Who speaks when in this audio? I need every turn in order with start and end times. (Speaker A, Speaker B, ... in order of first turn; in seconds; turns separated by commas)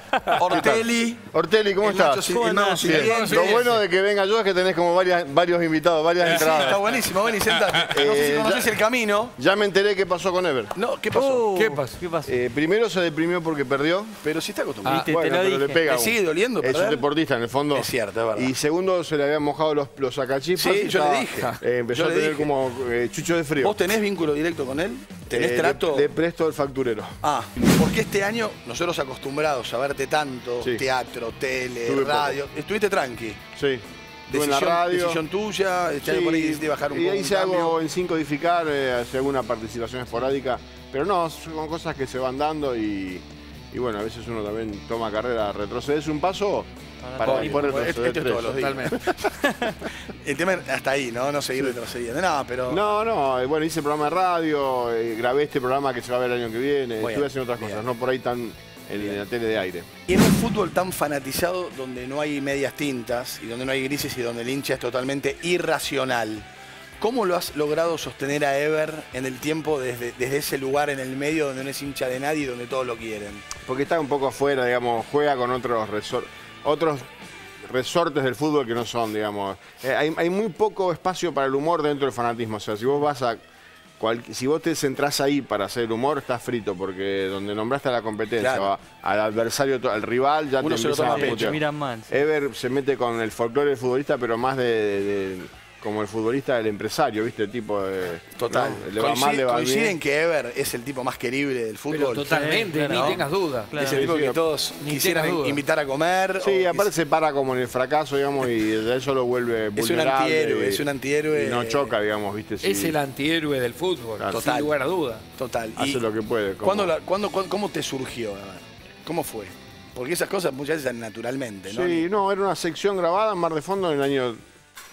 Speaker A: 0.3-1.2, Speaker B: 0.5-6.9, Speaker A: 1.8-3.7, Speaker C: 2.3-3.4, Speaker D: 3.0-3.7, Speaker A: 6.2-9.3, Speaker D: 6.4-8.0, Speaker B: 7.9-8.7, Speaker B: 9.4-10.8, Speaker A: 10.8-11.7, Speaker C: 11.1-12.3, Speaker D: 11.5-12.0, Speaker B: 12.2-14.2, Speaker A: 14.2-15.1, Speaker D: 14.8-15.1, Speaker C: 14.9-15.9, Speaker B: 14.9-23.8, Speaker A: 15.8-17.1, Speaker A: 17.7-18.5, Speaker A: 20.6-22.5, Speaker A: 23.6-26.1, Speaker B: 25.3-27.2, Speaker A: 27.2-33.4, Speaker B: 31.9-32.4, Speaker B: 33.6-35.2, Speaker A: 34.3-37.8, Speaker B: 36.0-49.1, Speaker C: 47.0-47.9, Speaker A: 47.2-52.9, Speaker D: 48.5-49.0, Speaker B: 52.7-59.9, Speaker A: 57.0-57.8, Speaker A: 60.1-66.5, Speaker A: 67.0-73.5, Speaker B: 73.6-77.1, Speaker B: 77.6-83.4, Speaker B: 84.0-100.0, Speaker A: 88.4-88.7, Speaker A: 90.6-91.6, Speaker C: 91.1-92.1, Speaker A: 98.4-103.2, Speaker D: 101.9-104.2, Speaker C: 102.3-104.1, Speaker A: 103.8-106.9, Speaker B: 103.8-104.4, Speaker D: 104.8-105.6, Speaker B: 106.4-113.0, Speaker A: 109.8-112.0, Speaker D: 112.6-115.2, Speaker A: 114.3-114.7, Speaker A: 115.4-116.0, Speaker B: 115.8-116.9, Speaker A: 116.6-122.1, Speaker B: 121.7-124.4